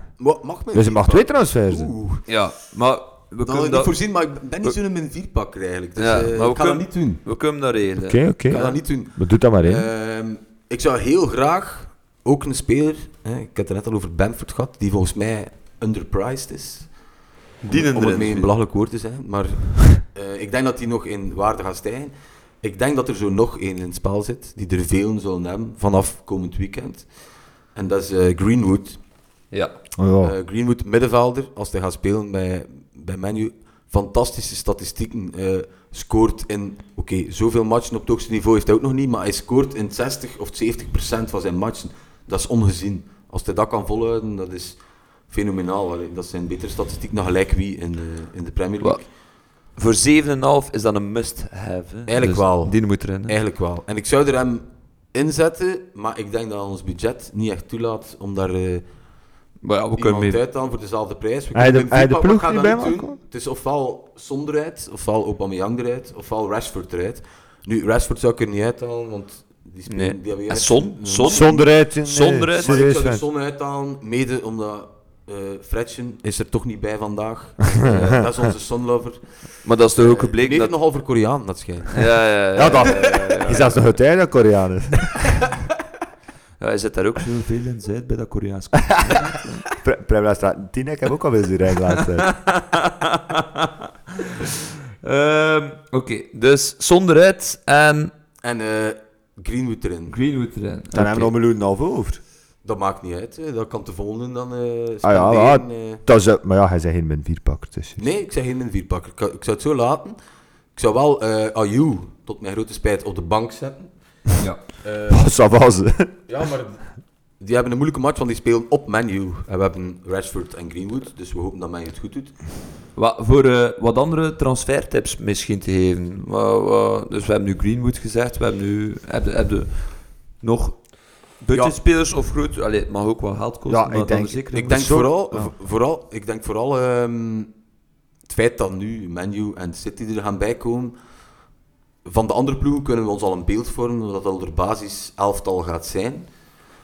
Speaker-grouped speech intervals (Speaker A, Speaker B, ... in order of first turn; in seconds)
Speaker A: 0.2-2.3, 3.5-7.2, 8.5-17.1, 17.7-29.0, 30.2-49.1, 52.1-59.1, 60.0-71.7, 72.5-82.3, 82.8-83.5, 98.4-100.2, 102.6-106.0, 108.0-110.1, 110.7-115.3, 116.3-122.4, 134.5-137.5, 138.2-140.9, 142.0-146.3
Speaker B: 0.7-1.9, 8.0-9.9, 30.0-30.3, 61.5-63.2, 71.2-73.2, 82.5-85.5, 89.7-92.4, 100.9-102.2, 105.0-108.0, 115.1-116.1, 133.7-135.5
Speaker C: 2.3-3.9, 6.0-8.2, 17.6-18.5, 29.5-29.8, 48.8-53.4, 59.6-60.4, 69.9-72.8, 79.6-80.7, 82.0-83.8, 86.6-89.6, 92.2-94.5, 95.0-98.1, 100.1-101.3, 122.9-134.9